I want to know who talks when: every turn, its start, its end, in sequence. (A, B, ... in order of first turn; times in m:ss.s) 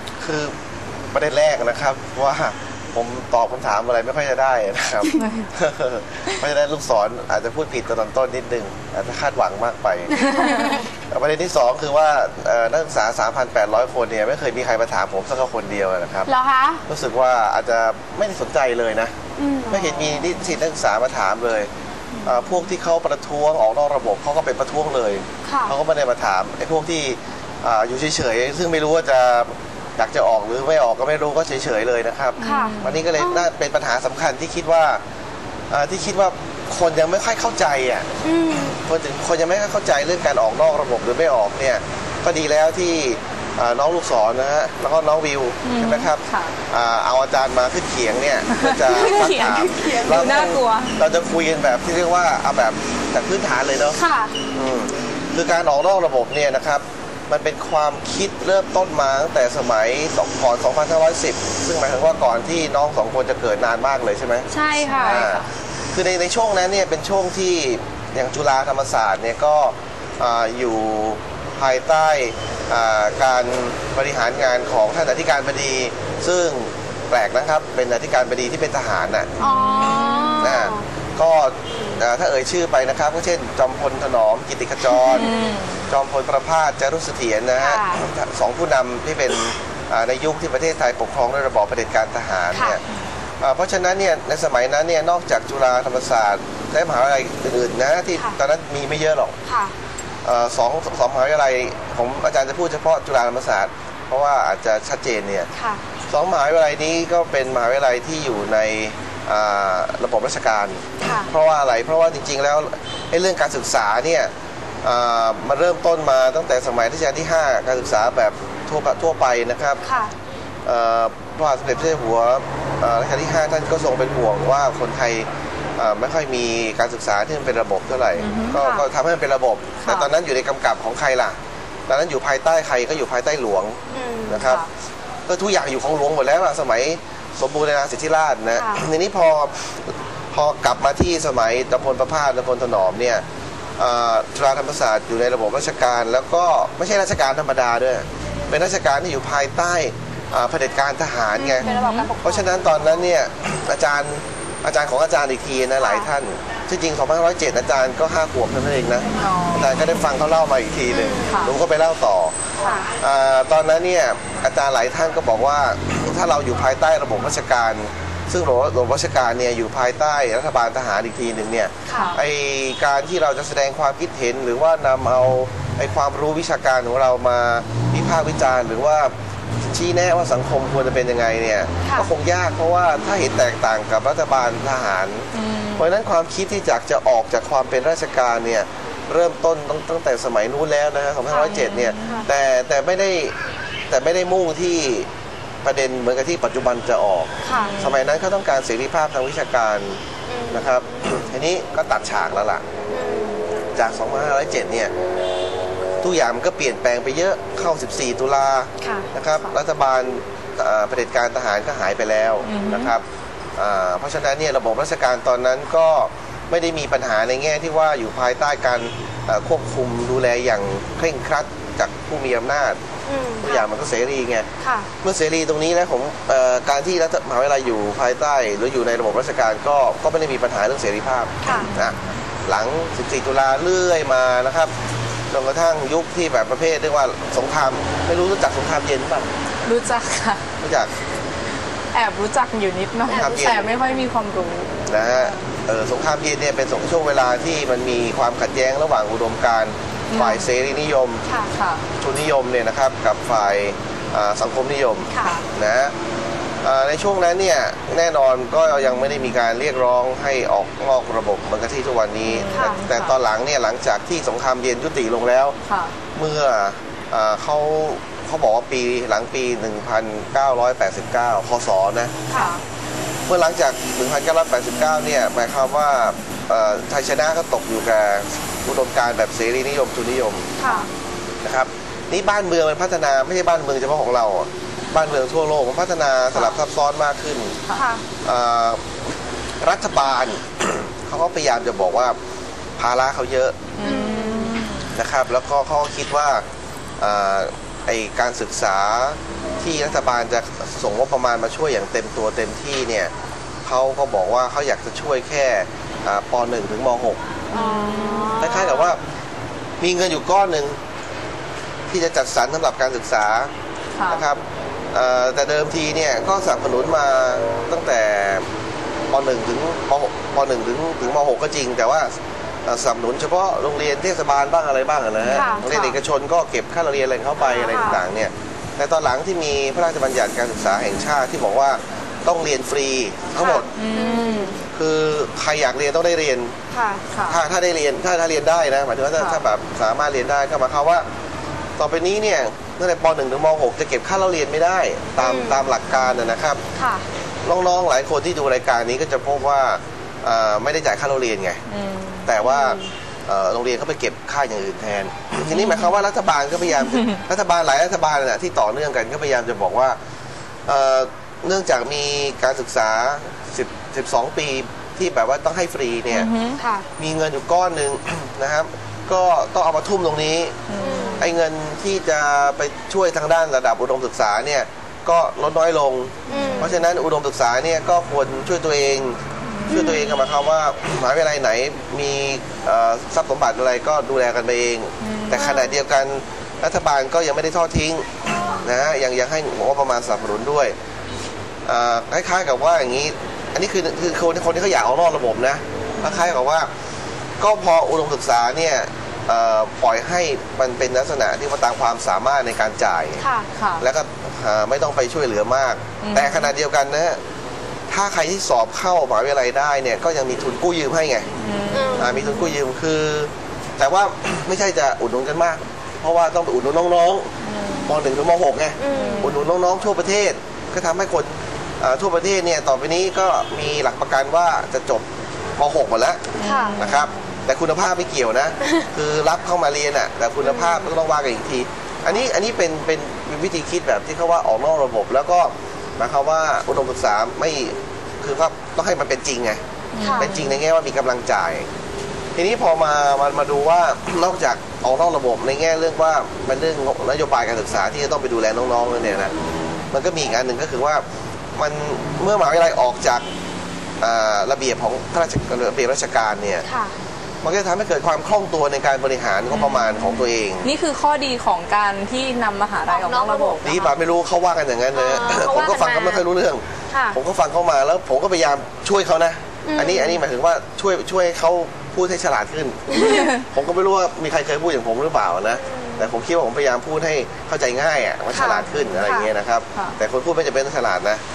0:00.2-0:00.5 A
0:01.1-0:10.2 A
0:05.2-0:05.5 B
0:10.1-0:10.8 C
0:10.3-0:10.6 B
0:11.1-0:16.3 A
0:16.3-0:16.8 C
0:16.9-0:19.1 A
0:19.4-0:19.9 C
0:19.7-0:21.7 A
0:22.2-0:22.6 B
0:22.2-0:35.0 A
0:25.4-0:25.8 C
0:32.4-0:33.0 B
0:32.4-0:33.5 C
0:35.7-0:38.1 A
0:38.2-0:38.8 C
0:38.8-0:54.0 A
0:45.6-0:46.6 B
0:48.5-0:51.0 B
0:53.9-0:54.4 C
0:54.5-1:04.5 A
1:04.5-1:05.3 C
1:04.8-1:05.5 B
1:05.0-1:19.3 A
1:19.4-1:20.8 C
1:19.4-1:20.5 B
1:20.4-1:25.3 A
1:24.9-1:25.9 B
1:25.1-1:25.5 C
1:25.8-1:32.8 A
1:27.6-1:28.0 C
1:32.5-1:32.8 C
1:33.4-1:39.4 A
1:39.4-1:39.7 C
1:40.2-1:45.5 A
1:45.5-1:45.8 C
1:46.1-1:54.3 A
1:51.0-1:51.3 C
1:54.8-1:59.8 A
1:59.8-2:00.2 C
2:00.7-2:11.4 A
2:08.2-2:08.6 B
2:08.6-2:08.9 C
2:09.8-2:10.1 B
2:11.9-2:14.6 A
2:13.9-2:14.4 C
2:15.3-2:19.7 A
2:18.6-2:18.9 C
2:20.3-2:23.2 A
2:23.8-2:31.7 A
2:31.4-2:33.0 C
2:31.6-2:32.1 B
2:32.2-2:42.4 A
2:35.8-2:36.1 C
2:39.2-2:39.8 B
2:40.9-2:41.4 C
2:41.3-2:41.6 B
2:42.6-2:42.9 C
2:43.0-3:13.3 A
2:51.9-2:52.2 C
2:51.9-2:52.2 B
3:01.8-3:02.1 C
3:05.3-3:05.9 B
3:11.4-3:12.3 B
3:13.9-3:15.1 A
3:15.6-3:20.0 A
3:17.4-3:17.8 C
3:17.5-3:18.2 B
3:20.3-3:21.3 C
3:20.5-3:22.6 A
3:22.9-3:23.5 C
3:23.8-3:24.9 A
3:26.0-3:33.0 A
3:28.8-3:29.1 C
3:32.4-3:32.9 B
3:33.6-3:42.8 A
3:43.1-3:43.7 C
3:43.4-3:44.5 A
3:44.6-3:44.9 C
3:45.0-3:54.7 A
3:51.4-3:51.7 C
3:51.5-3:51.9 B
3:55.3-3:59.3 A
3:59.6-4:00.5 B
4:00.6-4:00.9 A
4:01.9-4:05.3 B
4:03.1-4:04.1 C
4:03.1-4:03.7 A
4:04.9-4:11.2 A
4:10.1-4:10.5 B
4:11.3-4:11.5 C
4:11.5-4:11.8 B
4:12.0-4:15.9 A
4:15.1-4:15.5 C
4:16.6-4:25.6 A
4:22.3-4:23.1 B
4:22.5-4:22.8 C
4:25.6-4:25.9 B
4:26.2-4:32.1 A
4:32.3-4:32.5 C
4:32.4-4:32.6 B
4:33.3-4:40.5 A
4:40.6-4:40.9 C
4:41.4-4:47.6 A
4:47.7-4:48.0 C
4:48.2-4:48.8 A
4:49.6-4:52.2 A
4:52.8-4:53.6 A
4:53.8-4:54.9 B
4:53.8-4:54.6 C
4:54.9-4:56.4 A
4:57.0-5:03.1 A
5:03.6-5:07.2 A
5:07.5-5:08.3 B
5:07.5-5:08.9 C
5:08.4-5:09.0 A
5:09.8-5:10.8 A
5:11.9-5:13.5 A
5:14.0-5:14.3 B
5:14.1-5:18.5 A
5:19.1-5:22.1 A
5:22.7-5:33.7 A
5:25.2-5:25.7 B
5:25.3-5:26.0 C
5:27.4-5:28.0 C
5:33.4-5:34.6 C
5:33.8-5:34.6 B
5:34.7-5:36.6 A
5:36.7-5:37.0 C
5:37.1-5:37.4 B
5:37.3-5:41.0 A
5:39.2-5:39.4 B
5:41.8-5:46.6 A
5:45.2-5:45.7 C
5:46.8-5:47.0 C
5:47.4-5:51.6 A
5:51.7-5:52.3 B
5:52.3-6:00.0 A
5:52.4-5:52.9 C
5:55.5-5:55.9 B
6:00.7-6:06.3 A
6:06.1-6:06.6 B
6:06.6-6:06.9 C
6:07.0-6:10.6 A
6:10.7-6:11.2 B
6:10.8-6:11.3 C
6:11.2-6:28.1 A
6:16.3-6:16.7 C
6:16.3-6:16.7 B
6:19.5-6:20.3 B
6:25.0-6:25.7 B
6:28.3-6:28.7 B
6:28.6-6:30.7 A
6:31.7-6:36.7 A
6:36.0-6:36.3 B
6:37.4-6:43.2 A
6:43.2-6:43.5 C
6:43.5-6:43.8 B
6:43.8-6:47.2 A
6:46.0-6:46.5 B
6:47.9-6:51.3 A
6:51.4-6:52.6 B
6:51.7-6:52.1 C
6:52.0-6:57.3 A
6:57.4-6:57.9 B
6:57.9-7:05.0 A
6:58.8-6:59.3 C
6:58.9-6:59.5 B
7:05.6-7:19.6 A
7:06.4-7:07.2 B
7:06.4-7:06.8 C
7:10.4-7:10.9 C
7:19.9-7:20.6 B
7:20.0-7:20.3 C
7:20.1-7:21.7 A
7:22.4-7:29.3 A
7:29.9-7:31.0 A
7:31.6-7:33.2 A
7:34.0-7:36.6 A
7:36.6-7:36.9 C
7:37.4-7:40.7 A
7:39.5-7:43.8 B
7:42.9-7:43.9 C
7:43.6-8:01.2 A
7:44.9-7:46.2 C
7:46.9-7:47.2 C
7:49.6-7:50.2 C
7:52.9-7:53.3 C
7:53.1-7:53.4 B
7:55.5-7:56.1 C
7:58.3-7:59.3 C